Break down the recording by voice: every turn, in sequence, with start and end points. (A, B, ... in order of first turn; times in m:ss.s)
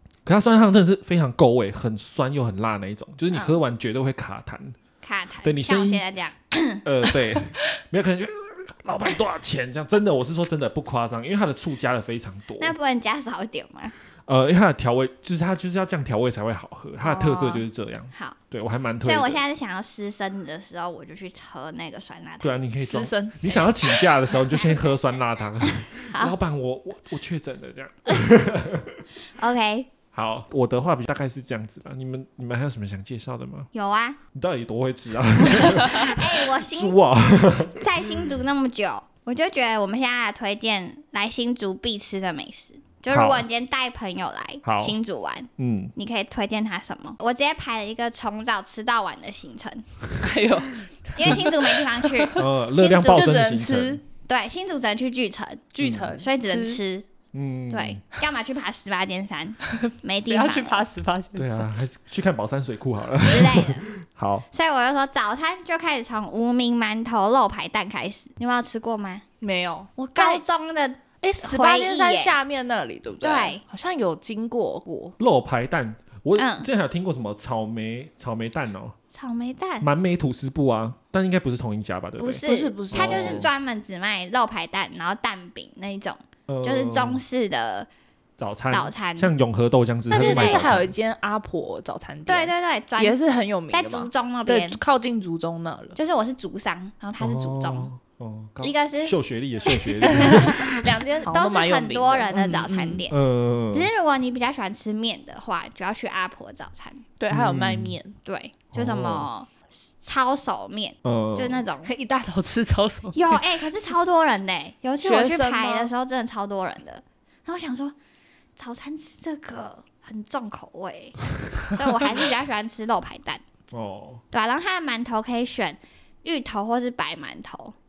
0:00.3-0:04.8 A
0:03.3-0:03.6 B
0:05.0-0:07.2 B
0:05.4-0:06.0 A
0:06.8-0:12.8 A
0:12.6-0:13.9 B
0:14.3-0:19.4 A
0:17.0-0:18.4 B
0:19.0-0:22.6 B
0:22.4-0:29.0 A
0:22.8-0:23.4 C
0:23.5-0:24.9 B
0:25.6-0:26.4 B
0:29.4-0:29.9 B
0:30.1-0:33.7 A
0:33.7-0:34.2 B
0:34.3-0:38.0 A
0:35.5-0:37.0 B
0:37.7-0:49.8 B
0:43.1-0:43.4 A
0:44.6-0:45.0 A
0:45.6-0:45.9 A
0:50.2-0:52.4 C
0:51.2-0:53.3 B
0:52.4-0:54.0 A
0:53.0-0:54.0 C
0:54.3-0:57.1 B
0:55.7-0:56.8 C
0:55.8-0:56.1 A
0:57.3-0:58.0 A
0:57.7-1:00.9 B
1:00.2-1:01.7 C
1:01.4-1:04.5 A
1:03.3-1:03.9 B
1:04.5-1:09.2 B
1:09.4-1:10.4 C
1:10.0-1:12.4 B
1:11.2-1:15.2 C
1:13.2-1:13.6 B
1:15.2-1:19.0 A
1:16.4-1:16.7 B
1:19.1-1:19.9 B
1:19.8-1:23.5 A
1:22.2-1:27.9 B
1:22.5-1:23.5 C
1:26.5-1:27.2 A
1:28.4-1:30.9 A
1:28.7-1:29.3 B
1:30.1-1:36.0 C
1:30.1-1:30.8 B
1:32.3-1:33.2 B
1:33.7-1:34.8 B
1:36.0-1:37.9 B
1:37.2-1:41.0 A
1:38.6-1:40.5 B
1:40.0-1:43.0 C
1:41.3-1:43.2 B
1:43.1-1:43.9 A
1:43.7-1:47.0 B
1:47.2-1:48.2 C
1:47.3-1:48.0 A
1:48.2-1:51.9 B
1:48.7-1:49.3 A
1:51.0-1:51.6 A
1:51.8-1:53.6 C
1:53.2-1:58.0 B
1:55.0-1:55.9 C
1:58.6-2:03.4 B
2:03.7-2:04.2 A
2:04.3-2:07.8 B